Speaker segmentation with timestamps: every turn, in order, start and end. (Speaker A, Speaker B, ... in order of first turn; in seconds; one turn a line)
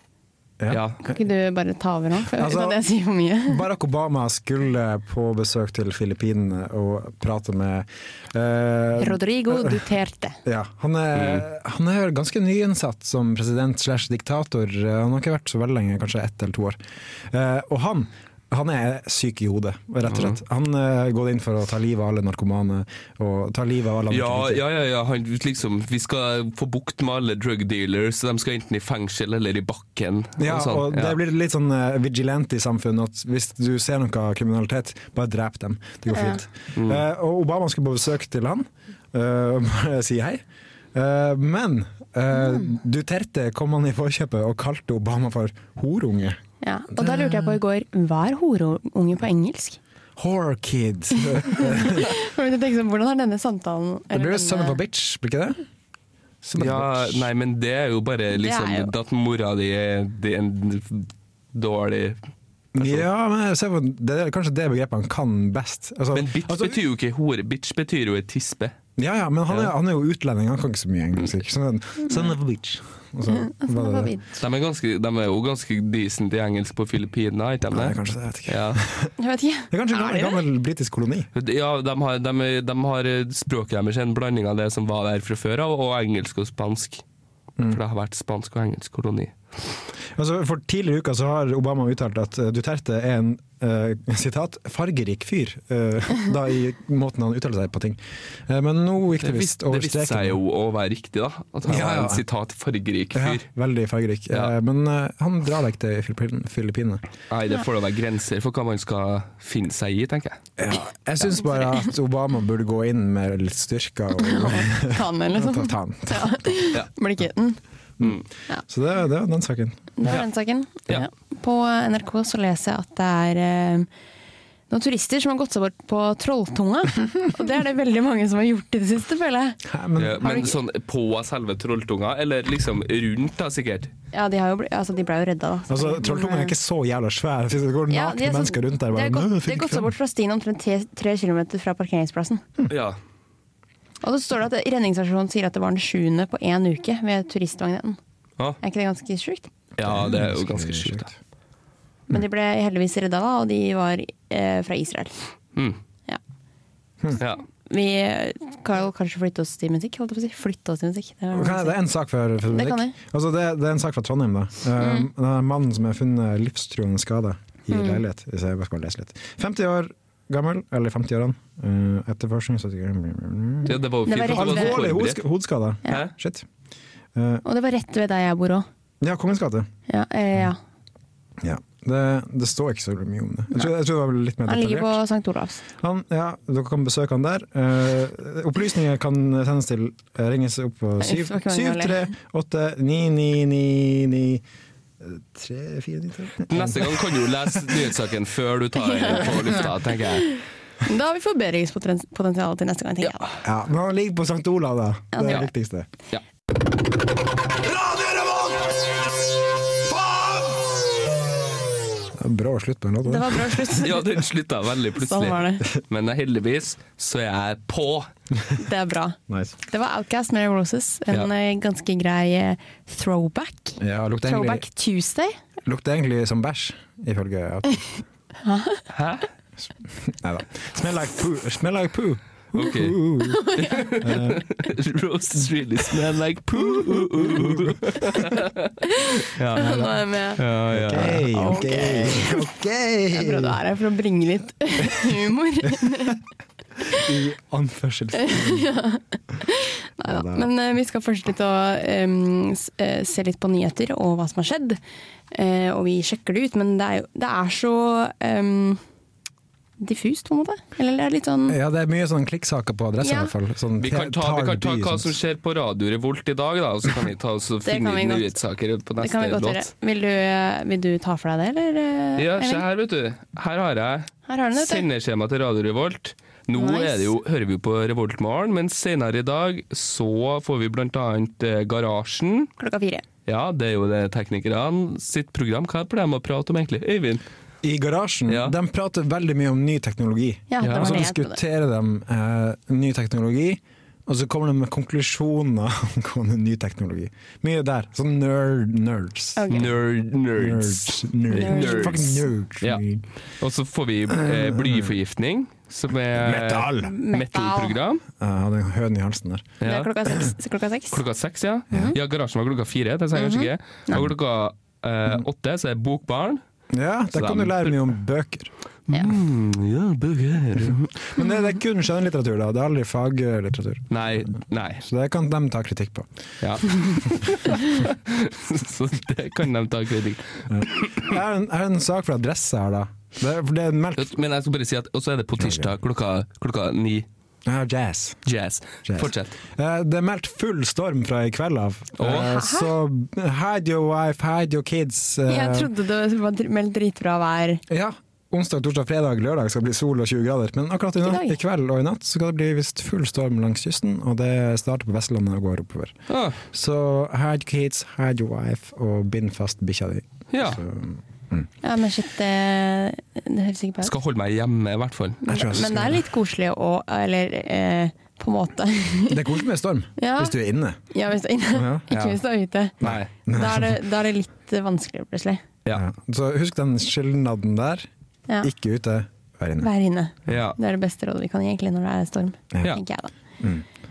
Speaker A: 0.6-1.1
Speaker B: 0.7-1.0
Speaker C: 1.0-3.6
Speaker A: 2.3-2.8
Speaker A: 3.5-9.8
Speaker C: 9.0-10.4
Speaker A: 10.4-24.6
Speaker B: 11.2-11.4
Speaker B: 20.1-20.4
Speaker B: 24.1-31.2
Speaker A: 30.4-40.4
Speaker C: 36.1-36.4
Speaker B: 36.8-37.0
Speaker A: 40.9-46.4
Speaker C: 42.5-42.7
Speaker C: 46.6-49.8
Speaker A: 46.9-47.6
Speaker A: 50.2-52.1
Speaker C: 51.2-54.8
Speaker A: 54.1-55.6
Speaker A: 56.4-57.3
Speaker B: 56.6-62.2
Speaker C: 58.4-58.9
Speaker A: 62.8-66.8
Speaker B: 62.8-63.1
Speaker B: 66.1-68.7
Speaker A: 69.0-74.2
Speaker C: 73.3-74.3
Speaker B: 74.4-78.8
Speaker A: 77.7-79.1
Speaker C: 79.2-80.4
Speaker A: 79.7-81.3
Speaker B: 81.3-87.0
Speaker B: 87.7-89.4
Speaker A: 90.2-100.4
Speaker B: 99.2-103.5
Speaker A: 101.7-102.2
Speaker A: 103.1-107.0
Speaker B: 107.3-110.4
Speaker A: 110.6-116.5
Speaker C: 114.2-117.6
Speaker A: 118.0-119.9
Speaker C: 120.0-123.9
Speaker C: 124.7-129.6
Speaker A: 129.7-130.5
Speaker B: 130.0-133.9
Speaker C: 130.2-130.6
Speaker C: 134.1-136.5
Speaker A: 135.7-139.9
Speaker C: 137.9-142.4
Speaker B: 142.7-143.0
Speaker C: 144.0-148.0
Speaker C: 148.6-149.5
Speaker A: 149.8-151.2
Speaker B: 149.8-151.1
Speaker C: 152.1-155.1
Speaker C: 157.6-161.8
Speaker A: 161.3-176.5
Speaker C: 162.5-162.9
Speaker C: 164.8-165.1
Speaker C: 167.7-168.0
Speaker B: 173.7-175.2
Speaker C: 174.1-174.8
Speaker A: 177.2-177.4
Speaker C: 177.4-178.7
Speaker A: 179.0-179.7
Speaker C: 179.9-180.6
Speaker A: 181.4-185.0
Speaker C: 184.5-185.6
Speaker A: 185.8-194.4
Speaker C: 191.0-192.1
Speaker A: 195.0-197.8
Speaker B: 196.5-200.3
Speaker C: 198.8-199.6
Speaker C: 200.2-203.3
Speaker A: 203.4-205.9
Speaker C: 205.1-205.5
Speaker A: 208.0-208.3
Speaker A: 212.1-213.7
Speaker C: 213.1-214.1
Speaker B: 213.8-218.1
Speaker C: 215.0-215.7
Speaker C: 218.6-225.4
Speaker A: 219.3-219.5
Speaker A: 223.8-224.7
Speaker A: 225.7-228.0
Speaker C: 228.4-228.8
Speaker B: 228.9-229.3
Speaker A: 229.9-233.5
Speaker B: 232.5-233.0
Speaker C: 233.3-233.9
Speaker B: 233.5-241.3
Speaker A: 234.0-234.4
Speaker A: 236.6-238.4
Speaker C: 239.0-240.4
Speaker A: 239.6-239.9
Speaker A: 240.7-243.6
Speaker C: 241.1-242.5
Speaker C: 243.1-246.2
Speaker A: 245.7-246.2
Speaker A: 246.9-248.7
Speaker C: 248.2-254.8
Speaker A: 250.1-250.5
Speaker C: 255.3-258.8
Speaker C: 259.8-261.6
Speaker A: 261.5-265.1
Speaker C: 263.0-263.3
Speaker B: 263.8-269.7
Speaker C: 267.6-268.4
Speaker C: 269.0-272.6
Speaker B: 272.2-282.5
Speaker C: 274.3-274.9
Speaker C: 276.5-277.1
Speaker C: 282.6-283.0
Speaker B: 283.3-287.2
Speaker A: 287.6-299.7
Speaker B: 288.3-288.6
Speaker C: 290.5-291.4
Speaker B: 290.6-291.0
Speaker C: 299.4-299.7
Speaker B: 299.5-302.8
Speaker A: 300.4-303.0
Speaker C: 301.3-302.2
Speaker B: 303.4-308.0
Speaker A: 304.1-304.9
Speaker A: 306.1-306.9
Speaker C: 306.8-307.8
Speaker A: 308.2-309.6
Speaker B: 309.6-309.9
Speaker C: 309.6-311.0
Speaker B: 310.9-316.4
Speaker C: 313.1-314.0
Speaker A: 316.7-318.5
Speaker B: 317.1-317.9
Speaker B: 318.9-321.0
Speaker A: 320.7-324.3
Speaker B: 323.9-324.9
Speaker A: 324.8-326.1
Speaker B: 326.4-331.1
Speaker A: 330.5-334.2
Speaker B: 334.0-337.1
Speaker A: 335.4-335.7
Speaker A: 337.4-338.2
Speaker B: 338.3-339.4
Speaker A: 338.9-345.7
Speaker B: 342.0-342.3
Speaker C: 342.1-342.7
Speaker C: 345.3-347.6
Speaker A: 347.7-356.0
Speaker C: 351.0-351.4
Speaker B: 356.1-356.4
Speaker A: 356.5-361.5
Speaker B: 360.3-360.6
Speaker C: 361.6-363.9
Speaker B: 363.8-365.2
Speaker C: 365.2-369.4
Speaker A: 365.3-366.0
Speaker A: 369.1-370.8
Speaker C: 370.0-370.4
Speaker C: 370.9-372.8
Speaker A: 371.5-372.2
Speaker A: 372.8-373.8
Speaker B: 372.8-373.1
Speaker C: 373.3-375.4
Speaker A: 375.7-377.9
Speaker A: 378.4-379.7
Speaker C: 379.6-383.1
Speaker B: 380.3-380.6
Speaker A: 382.5-382.8
Speaker A: 383.4-383.6